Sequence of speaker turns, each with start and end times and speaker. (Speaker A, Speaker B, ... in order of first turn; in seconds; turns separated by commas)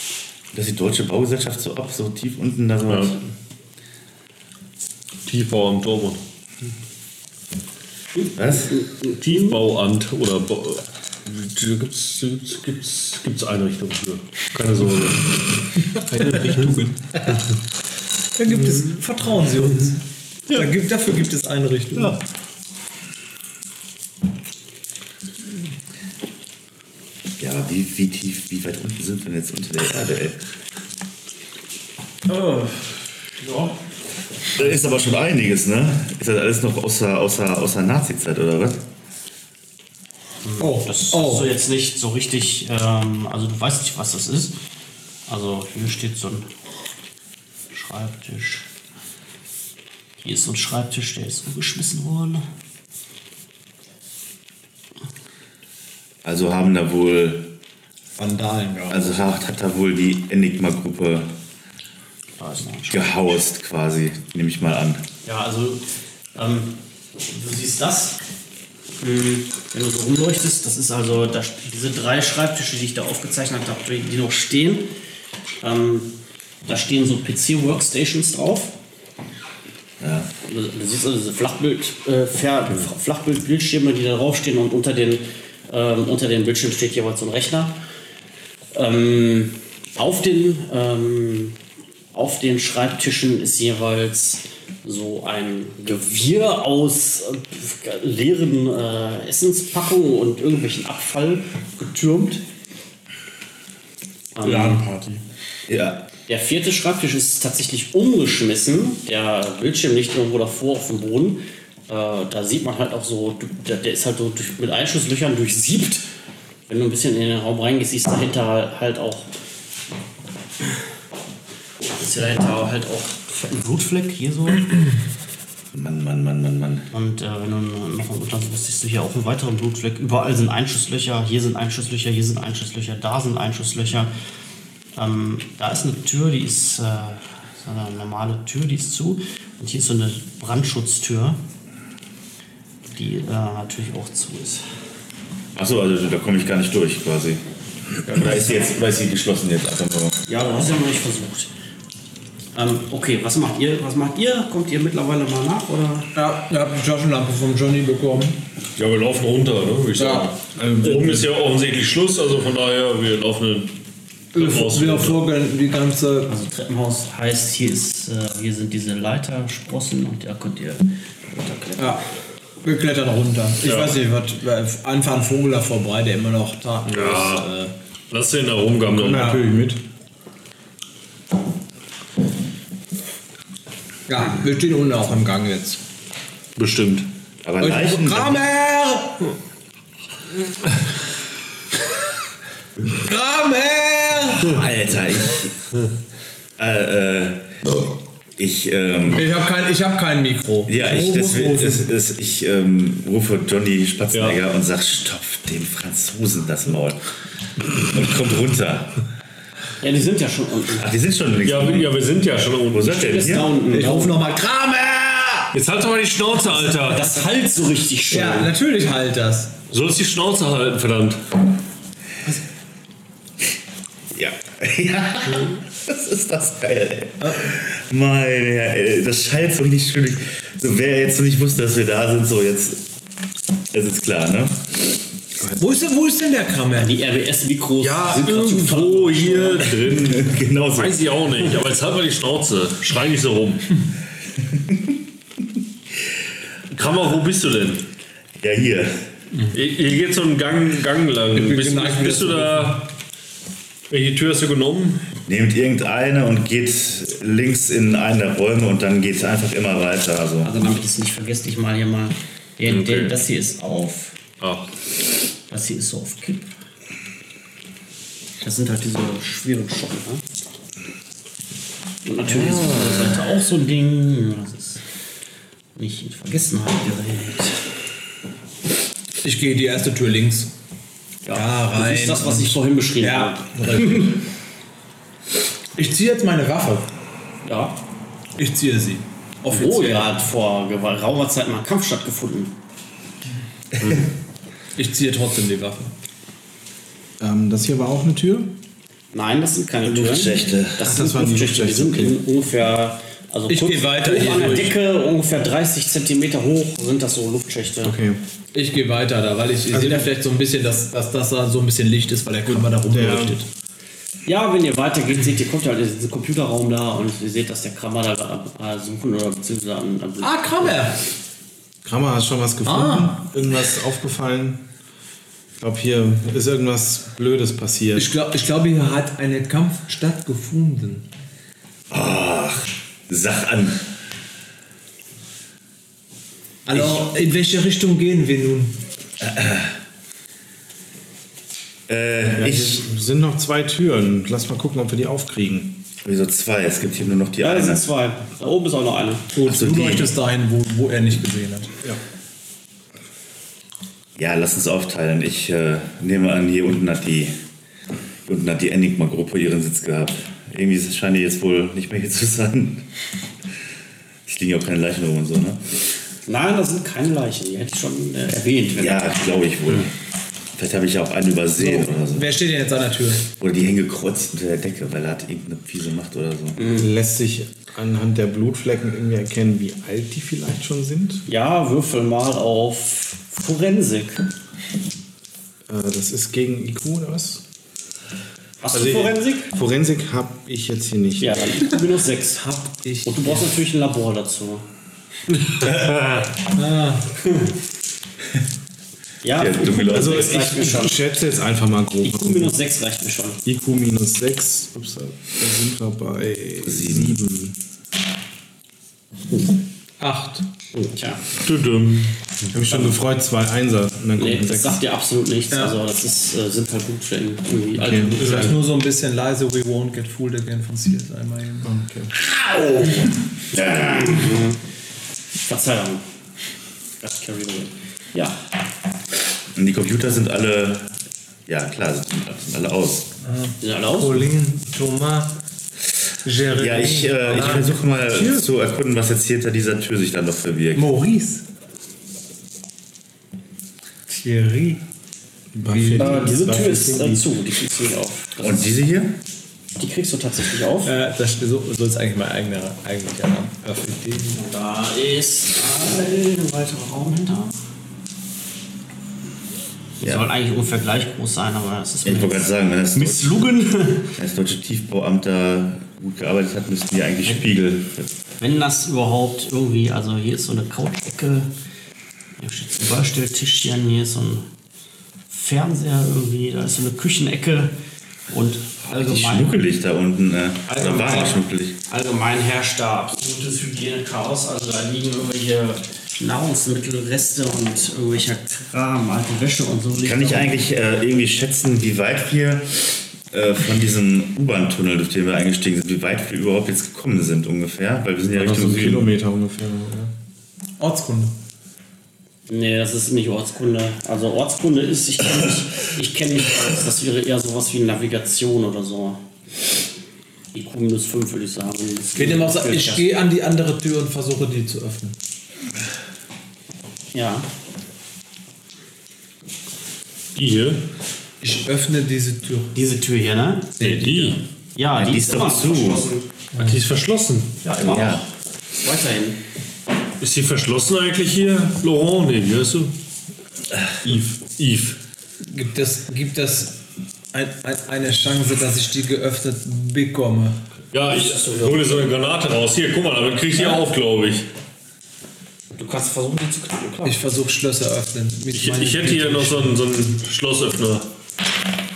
Speaker A: 0.5-3.2, Speaker B: 2.9-3.1, Speaker B: 5.2-6.2, Speaker C: 8.2-9.6, Speaker A: 8.4-8.7, Speaker B: 9.1-15.6, Speaker D: 16.0-17.1, Speaker E: 18.3-20.0, Speaker E: 20.5-22.2, Speaker A: 27.4-30.4, Speaker E: 32.3-32.7, Speaker E: 33.5-33.7, Speaker A: 34.5-38.8, Speaker C: 40.4-44.5, Speaker E: 40.6-41.5, Speaker C: 45.3-46.5, Speaker C: 47.7-48.6, Speaker C: 50.2-52.5, Speaker A: 56.2-57.5, Speaker E: 58.2-59.2, Speaker A: 58.9-61.3, Speaker C: 62.4-63.1, Speaker A: 62.9-65.0, Speaker C: 65.2-68.2, Speaker C: 69.0-74.9, Speaker C: 75.6-76.1, Speaker C: 76.6-78.7, Speaker A: 80.0-80.3, Speaker C: 80.4-87.7, Speaker C: 88.7-91.5, Speaker C: 92.1-102.4, Speaker C: 104.3-104.9, Speaker E: 104.4-105.2, Speaker A: 105.7-106.0, Speaker C: 106.3-116.1, Speaker C: 116.7-119.3, Speaker C: 122.0-124.9, Speaker A: 125.7-126.9, Speaker C: 126.9-134.1, Speaker C: 134.9-141.4, Speaker C: 142.9-144.6, Speaker A: 145.5-147.4, Speaker A: 148.0-150.2, Speaker C: 150.3-151.5, Speaker C: 152.5-156.1, Speaker E: 156.1-158.4, Speaker B: 158.8-163.7, Speaker E: 159.9-160.3, Speaker D: 160.6-161.3, Speaker B: 164.3-165.2, Speaker E: 164.3-166.3, Speaker C: 166.3-172.0, Speaker E: 171.8-172.0, Speaker E: 172.6-177.7, Speaker B: 173.6-174.0, Speaker B: 176.9-177.5, Speaker B: 178.1-179.3, Speaker D: 178.9-179.8, Speaker E: 179.1-179.4, Speaker E: 184.1-185.8, Speaker B: 186.6-187.1, Speaker A: 187.4-188.4, Speaker E: 187.6-189.3, Speaker E: 192.9-194.6, Speaker A: 194.4-195.5, Speaker A: 196.6-199.3, Speaker E: 199.1-201.9, Speaker A: 200.7-207.0, Speaker B: 204.1-204.4, Speaker A: 207.7-209.0, Speaker C: 209.8-210.9, Speaker A: 210.8-211.9, Speaker B: 211.4-213.4, Speaker A: 212.7-213.6, Speaker C: 212.9-214.2, Speaker E: 213.7-215.5, Speaker B: 215.5-217.1, Speaker C: 216.8-218.5, Speaker E: 218.1-219.5, Speaker B: 219.7-221.2, Speaker A: 224.1-232.8, Speaker E: 227.2-227.5, Speaker A: 233.7-234.8, Speaker E: 235.5-237.0, Speaker C: 236.7-239.8, Speaker E: 237.8-239.4, Speaker B: 238.2-243.8, Speaker A: 240.0-241.0, Speaker B: 246.7-247.8, Speaker A: 248.4-248.9, Speaker B: 249.5-252.9, Speaker E: 251.3-252.8, Speaker B: 253.9-255.1, Speaker A: 255.3-260.5, Speaker C: 260.4-264.2, Speaker B: 262.7-263.2, Speaker B: 264.4-264.7, Speaker C: 265.5-266.5, Speaker C: 268.4-270.2, Speaker C: 272.0-274.8, Speaker B: 272.3-273.2, Speaker C: 275.8-277.6, Speaker E: 279.2-280.5, Speaker C: 281.2-284.2, Speaker E: 281.3-284.2, Speaker E: 285.8-286.9, Speaker C: 287.4-287.8, Speaker E: 288.4-290.1, Speaker C: 289.5-292.6, Speaker E: 294.8-295.9, Speaker D: 297.2-298.5, Speaker C: 299.1-308.0, Speaker A: 299.8-300.9, Speaker D: 300.8-302.2, Speaker E: 303.5-304.8, Speaker D: 307.8-308.2, Speaker E: 308.5-313.5, Speaker D: 309.7-310.1, Speaker D: 312.5-313.4, Speaker C: 314.2-320.9, Speaker E: 320.2-321.0, Speaker D: 321.8-324.6, Speaker E: 322.6-323.2, Speaker D: 325.6-328.1, Speaker E: 327.9-331.1, Speaker A: 331.9-333.8, Speaker E: 336.6-338.8, Speaker A: 339.2-339.7, Speaker A: 341.9-342.9, Speaker D: 342.3-345.8, Speaker A: 346.0-347.8, Speaker C: 347.4-349.3, Speaker E: 349.3-351.7, Speaker A: 349.4-350.1, Speaker A: 354.2-357.3, Speaker A: 358.2-362.8, Speaker A: 364.2-365.6, Speaker C: 366.2-369.8, Speaker A: 368.7-369.9, Speaker A: 370.6-372.4, Speaker E: 371.6-373.3, Speaker A: 373.3-376.6, Speaker C: 376.6-376.9, Speaker D: 376.7-381.2, Speaker C: 381.3-384.2, Speaker D: 385.7-387.4, Speaker C: 388.6-389.5, Speaker D: 388.7-391.5, Speaker C: 391.2-394.6, Speaker E: 392.4-393.5, Speaker E: 396.4-397.2, Speaker C: 399.2-401.0, Speaker A: 399.3-400.3, Speaker D: 399.9-402.5, Speaker C: 402.0-403.4, Speaker D: 403.4-407.5, Speaker A: 406.6-407.2, Speaker E: 410.0-410.4, Speaker C: 410.7-411.2, Speaker B: 411.4-412.3, Speaker D: 412.5-414.8, Speaker C: 414.2-418.5, Speaker E: 415.5-415.8, Speaker D: 417.8-418.6, Speaker E: 418.1-421.7, Speaker D: 421.6-422.1, Speaker C: 422.5-424.6, Speaker A: 423.6-424.2, Speaker C: 425.4-426.0, Speaker C: 427.0-428.4, Speaker A: 429.5-430.9, Speaker A: 431.5-433.1, Speaker E: 433.2-435.3, Speaker C: 433.6-434.2, Speaker E: 436.2-438.5, Speaker A: 436.4-440.9, Speaker E: 440.7-441.4, Speaker E: 444.1-444.8, Speaker D: 445.5-447.2, Speaker E: 445.6-446.3, Speaker C: 445.9-448.7, Speaker A: 448.4-449.2, Speaker C: 449.8-450.9, Speaker E: 450.8-454.4, Speaker C: 454.3-457.6, Speaker C: 460.0-464.1, Speaker A: 462.0-463.4, Speaker A: 464.1-468.1, Speaker C: 468.4-471.5, Speaker C: 472.4-474.5, Speaker C: 475.3-477.7, Speaker C: 478.3-479.6, Speaker A: 478.9-481.8, Speaker C: 480.7-490.6, Speaker A: 490.0-499.1, Speaker D: 498.3-500.1, Speaker E: 500.8-501.4, Speaker C: 502.5-509.2, Speaker C: 510.5-513.1, Speaker E: 512.1-515.1, Speaker C: 517.1-517.5, Speaker B: 520.3-520.8, Speaker E: 521.4-522.7, Speaker C: 522.7-523.8, Speaker B: 523.8-524.4, Speaker E: 523.8-524.2, Speaker C: 524.8-526.2, Speaker A: 524.9-526.1, Speaker B: 526.5-527.5, Speaker C: 527.6-529.4, Speaker A: 527.8-528.2, Speaker B: 530.2-532.9, Speaker B: 534.0-535.0, Speaker E: 535.4-536.8, Speaker E: 537.3-540.6, Speaker B: 540.9-544.5, Speaker C: 541.1-542.1, Speaker C: 545.8-547.2, Speaker E: 547.0-549.7, Speaker B: 548.5-551.1